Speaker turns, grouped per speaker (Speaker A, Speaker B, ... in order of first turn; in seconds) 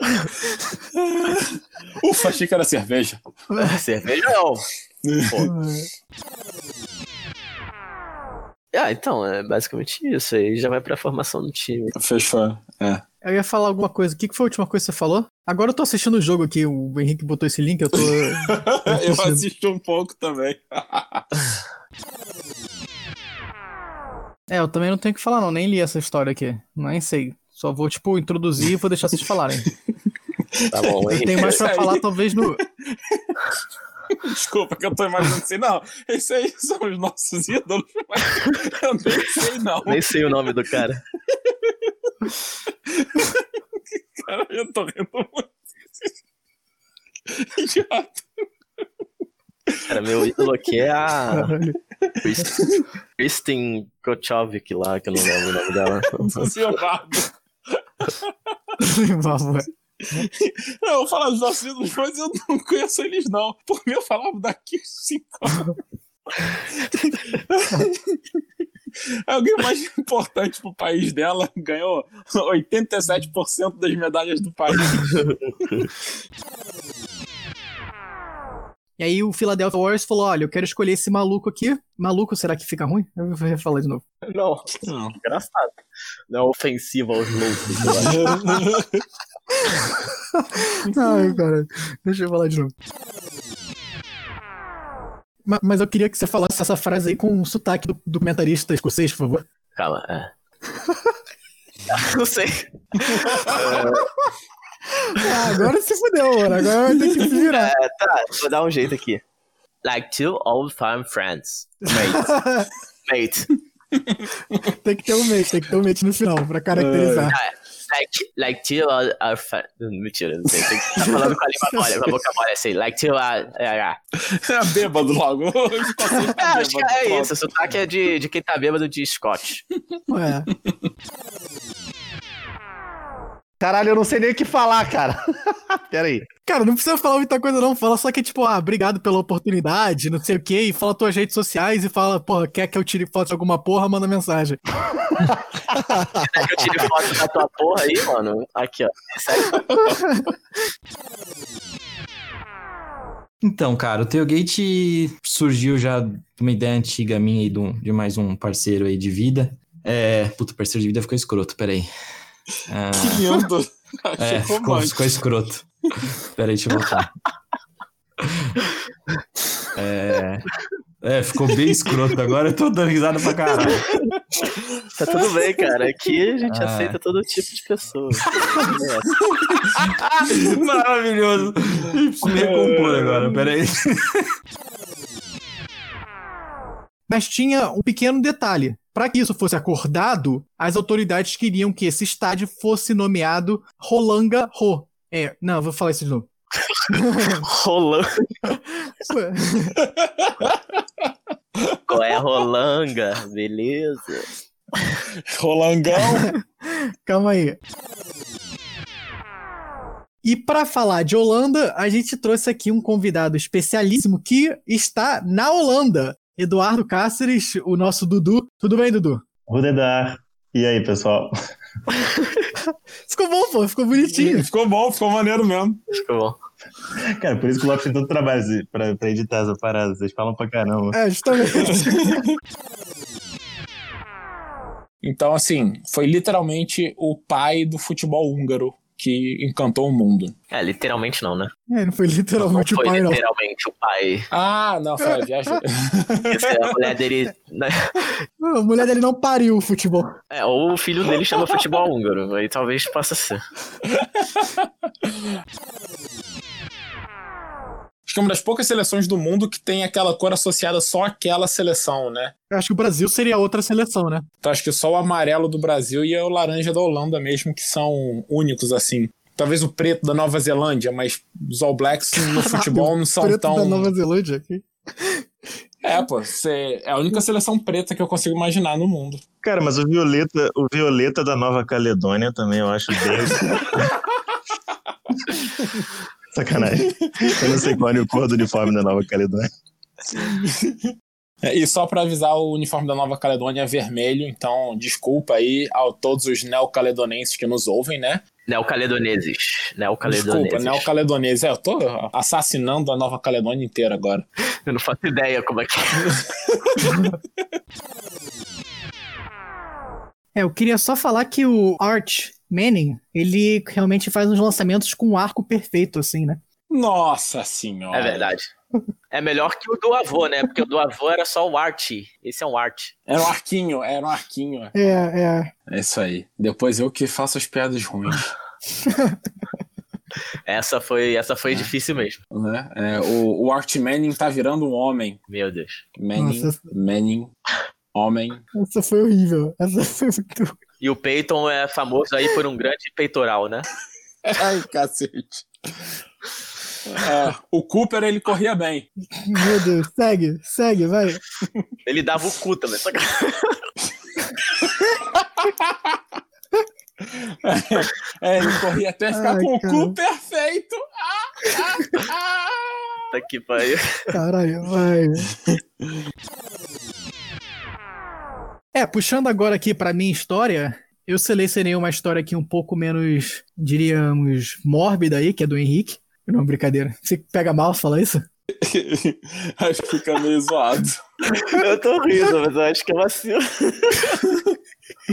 Speaker A: 0.9-3.2, 5.0-5.4, 11.9-13.0, 17.9-21.5, 30.8-32.4, 32.9-33.3, 34.1-40.1, 41.5-41.9, 42.9-43.4, 44.1-46.1, 47.3-48.3, 56.1-58.3, 60.1-65.8, 66.8-68.2, 69.3-75.3, 84.9-85.1, 88.0-89.0, 90.9-91.4, 111.9-112.2, 116.7-117.4, 124.2-127.4, 162.9-165.1, 179.4-180.3, 182.2-183.4, 199.8-201.1, 201.7-202.0, 205.3-206.3, 224.1-225.8, 235.0-240.3, 244.3-246.7, 254.0-254.6, 258.1-262.3, 264.4-273.9, 275.8-279.2, 286.7-287.8, 290.1-290.9, 291.4-298.2, 300.1-304.2, 316.7-318.3, 323.1-324.7, 325.7-328.3, 332.3-335.2, 335.9-337.3, 337.9-338.4, 344.2-345.5, 346.9-348.9, 355.1-356.0, 357.0-363.0, 378.5-381.0
Speaker B: 3.6-4.7, 8.7-11.9, 30.7-31.6, 39.9-41.0, 49.9-51.5, 52.2-52.5, 53.2-56.5, 84.2-85.7, 86.3-88.4, 99.8-100.3, 101.9-104.1, 107.5-109.2, 109.8-112.2, 113.1-113.5, 117.3-124.0, 126.4-129.6, 146.2-149.7, 174.9-179.1, 197.3-198.1, 201.9-204.3, 225.9-226.4, 240.5-241.5, 242.4-244.3, 246.3-248.1, 250.3-253.4, 298.5-300.9, 304.6-306.2, 317.9-318.5, 319.1-322.9, 330.4-332.2, 335.3-335.8, 340.8-343.7, 351.9-353.6, 363.1-364.1, 381.3-384.2
Speaker C: 5.4-5.9, 13.2-19.4, 24.5-29.7, 31.1-32.6, 51.3-51.8, 58.8-60.2, 79.0-84.0, 90.4-92.7, 95.4-99.4, 105.0-107.7, 111.9-112.7, 114.7-117.4, 130.1-130.5, 136.4-144.6, 145.8-146.1, 187.1-196.3, 196.9-197.4, 199.1-199.8, 206.2-207.6, 210.2-219.2, 223.1-224.5, 230.9-232.2, 241.7-243.2, 245.0-245.6, 248.4-250.1, 262.5-264.2, 272.1-275.2, 310.4-316.4, 324.7-325.5, 328.9-329.1, 336.1-336.6, 338.6-340.6, 349.1-351.2, 359.1-359.9, 364.1-365.3, 368.7-378.2
Speaker D: 133.6-135.2, 135.7-136.2
Speaker E: 153.4-161.9, 162.7-163.3, 164.2-165.7, 166.4-167.1, 169.8-170.4, 171.0-173.9, 176.4-177.0, 180.2-184.2
Speaker F: 219.5-221.3, 227.1-231.0, 279.4-283.9, 286.3-289.4